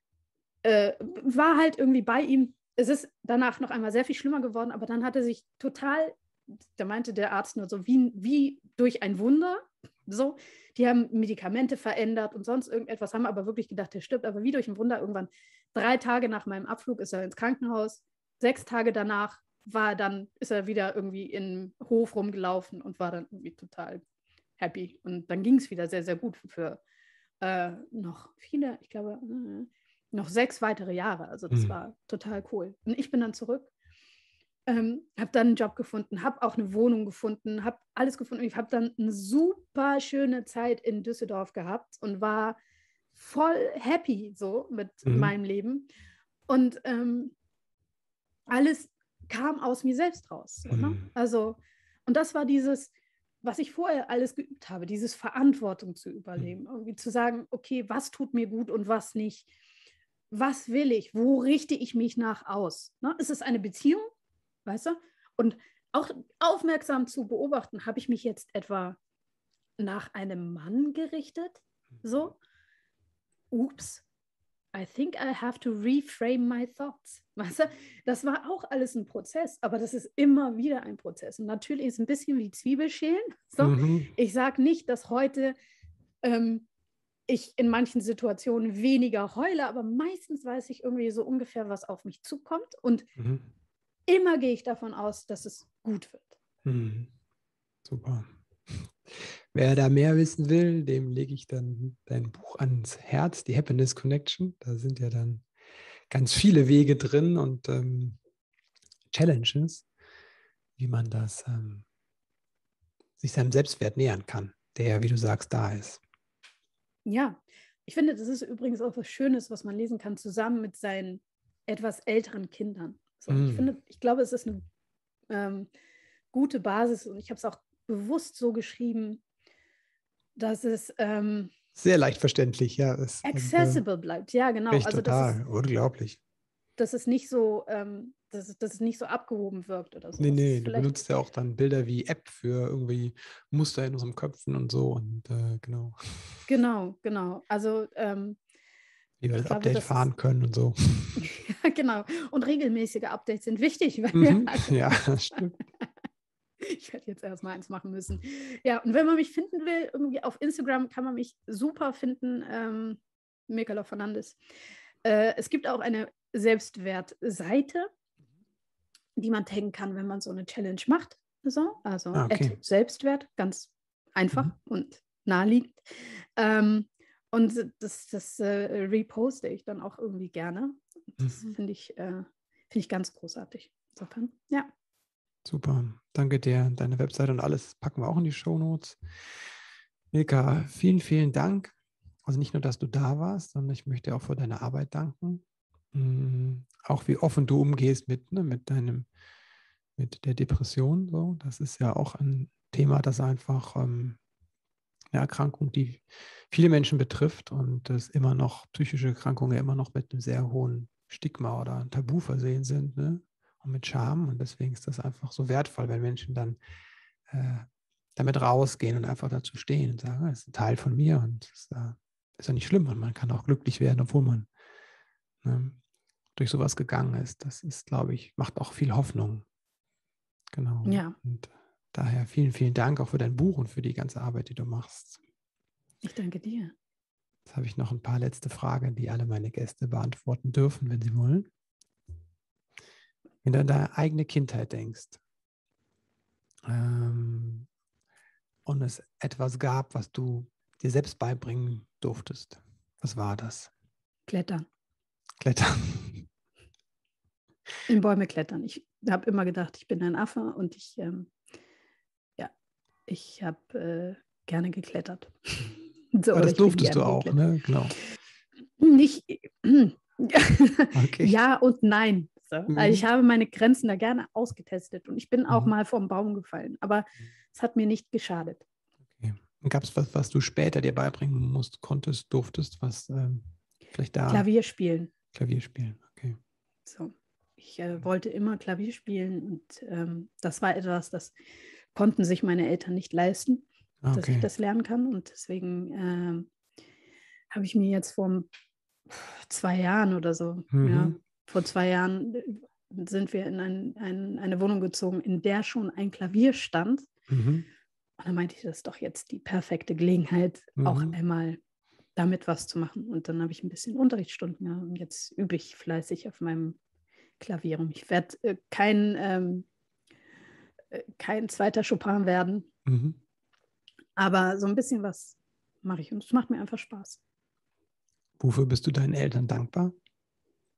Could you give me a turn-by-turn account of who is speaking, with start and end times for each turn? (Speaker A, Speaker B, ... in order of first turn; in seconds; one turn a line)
Speaker A: 0.6-24.0
Speaker A: 24.6-26.8
Speaker A: 27.4-33.7
Speaker A: 34.7-42.6
Speaker A: 43.1-45.9
Speaker B: 45.1-45.3
Speaker A: 46.5-47.4
Speaker A: 48.5-52.9
Speaker B: 50.7-51.1
Speaker A: 53.4-59.5
Speaker A: 60.3-64.1
Speaker A: 64.7-69.0
Speaker A: 69.8-72.4
Speaker A: 73.5-74.0
Speaker A: 74.7-85.6
Speaker B: 83.6-84.1
Speaker A: 86.2-86.7
Speaker A: 87.3-93.1
Speaker B: 93.2-93.5
Speaker A: 94.1-96.4
Speaker B: 96.7-97.1
Speaker B: 97.8-105.5
Speaker B: 106.1-108.2
Speaker B: 109.1-109.9
Speaker B: 110.8-111.9
Speaker B: 113.2-116.0
Speaker A: 117.0-124.7
Speaker B: 123.3-123.7
Speaker A: 125.3-125.7
Speaker A: 126.3-129.2
Speaker A: 130.4-131.5
Speaker B: 131.8-133.8
Speaker A: 133.2-135.4
Speaker B: 134.7-136.2
Speaker A: 136.8-140.9
Speaker B: 140.2-146.4
Speaker A: 146.5-148.4
Speaker B: 149.2-151.2
Speaker A: 149.3-150.1
Speaker A: 151.2-155.9
Speaker B: 154.1-155.6
Speaker A: 156.6-164.4
Speaker A: 165.0-167.9
Speaker A: 169.2-184.7
Speaker B: 172.1-172.6
Speaker B: 185.4-189.0
Speaker B: 190.1-199.1
Speaker B: 200.0-204.2
Speaker B: 205.1-216.6
Speaker B: 217.3-224.5
Speaker B: 225.4-225.8
Speaker B: 226.4-229.4
Speaker B: 230.5-235.2
Speaker A: 230.8-231.2
Speaker A: 236.0-236.7
Speaker B: 237.5-241.5
Speaker B: 243.4-245.2
Speaker B: 246.7-247.7
Speaker B: 248.7-253.7
Speaker A: 254.3-254.7
Speaker B: 255.4-256.3
Speaker A: 257.9-261.3
Speaker A: 263.1-267.4
Speaker B: 266.3-268.0
Speaker A: 268.8-278.6
Speaker B: 270.9-271.4
Speaker B: 272.7-273.1
Speaker B: 279.2-284.5
Speaker A: 284.3-285.1
Speaker B: 285.3-286.4
Speaker A: 286.9-291.4
Speaker A: 291.9-296.5
Speaker B: 294.0-294.5
Speaker A: 297.5-298.5
Speaker A: 299.1-307.1
Speaker B: 300.7-301.2
Speaker B: 307.3-307.7
Speaker A: 308.2-311.6
Speaker B: 310.8-311.2
Speaker A: 312.2-316.8
Speaker A: 317.4-319.7
Speaker A: 320.9-322.7
Speaker B: 322.9-323.2
Speaker A: 324.2-327.2
Speaker B: 328.4-329.9